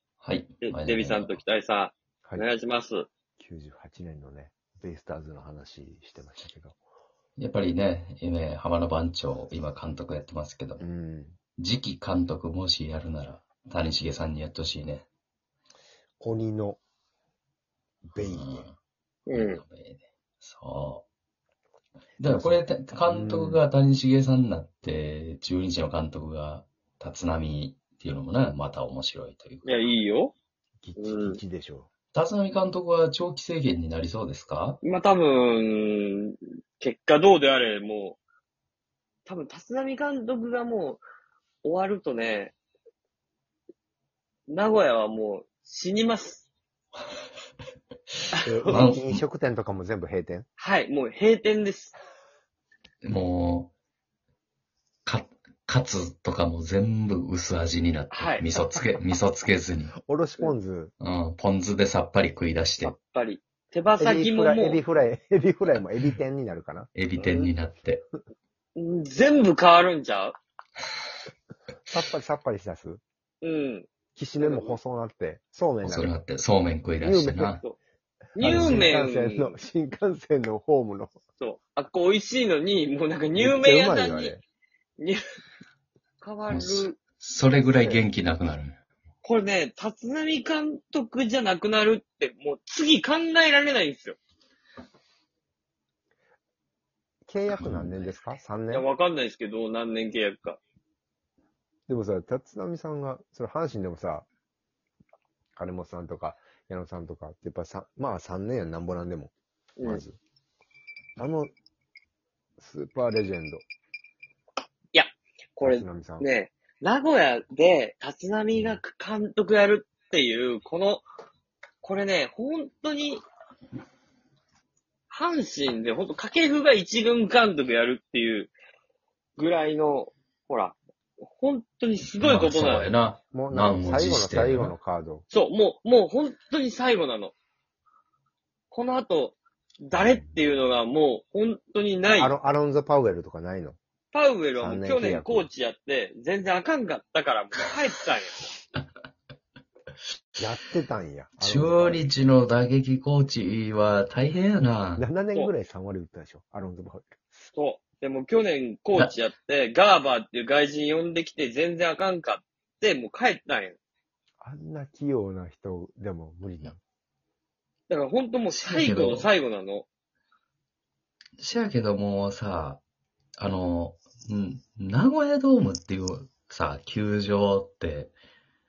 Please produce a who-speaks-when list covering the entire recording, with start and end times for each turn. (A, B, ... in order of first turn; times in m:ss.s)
0:00.2-0:01.4 A
0:00.6-0:03.1 B
0:03.4-0:06.8 C
0:07.4-0:10.8 A
0:10.8-0:11.4 C
0:11.6-0:15.0 A
0:16.2-0:16.8 C
0:18.1-0:18.8 A
0:18.1-0:18.6 C
0:19.3-0:19.6 B
0:19.3-0:21.0 A
0:22.2-0:29.8 A
0:22.2-0:23.6 C
0:29.6-0:30.3 B
0:30.8-0:31.9 C
0:31.0-0:31.4 B
0:32.1-0:34.8 A
0:34.8-0:38.2 B
0:39.2-0:41.0 B
0:41.6-0:42.5 B
0:44.5-0:46.4 B
0:48.3-0:48.9 B
0:48.4-0:50.5 C
0:48.7-0:49.2 A
0:50.6-0:51.9 B
0:53.0-0:53.7 A
0:55.0-0:59.9 A
0:58.1-0:58.4 B
0:58.5-0:58.8 C
1:00.0-1:00.9 C
1:01.0-1:03.0 A
1:02.8-1:04.8 B
1:04.0-1:06.9 C
1:06.9-1:08.0 A
1:07.2-1:07.5 B
1:08.8-1:10.4 B
1:11.9-1:13.0 C
1:13.4-1:13.9 B
1:14.1-1:16.2 C
1:14.4-1:14.8 B
1:15.8-1:17.6 A
1:17.0-1:17.6 C
1:18.4-1:19.6 B
1:18.4-1:21.1 C
1:18.4-1:18.9 A
1:21.4-1:24.4 B
1:23.3-1:24.4 C
1:26.2-1:27.0 B
1:26.5-1:28.8 A
1:27.8-1:28.0 C
1:29.2-1:34.2 B
1:37.2-1:38.9 C
1:37.5-1:38.1 A
1:38.7-1:40.6 B
1:41.9-1:44.3 C
1:45.6-1:49.3 C
1:49.8-1:50.0 B
1:49.8-1:50.2 C
1:51.2-1:51.5 C
1:52.6-1:53.6 C
1:54.9-2:01.0 B
1:55.6-1:56.3 C
1:58.5-1:58.8 A
2:01.8-2:03.2 B
2:05.1-2:08.5 B
2:09.4-2:13.0 B
2:12.2-2:14.7 A
2:13.3-2:15.2 C
2:15.3-2:17.3 B
2:18.7-2:22.3 B
2:19.9-2:20.3 C
2:22.1-2:23.8 C
2:24.1-2:28.5 B
2:24.6-2:25.5 C
2:30.4-2:32.1 C
2:31.4-2:35.0 A
2:35.0-2:37.3 C
2:37.5-2:43.8 B
2:44.4-2:46.8 C
2:47.9-2:49.9 B
2:48.5-2:49.3 A
2:51.4-2:52.8 A
2:53.4-2:58.1 A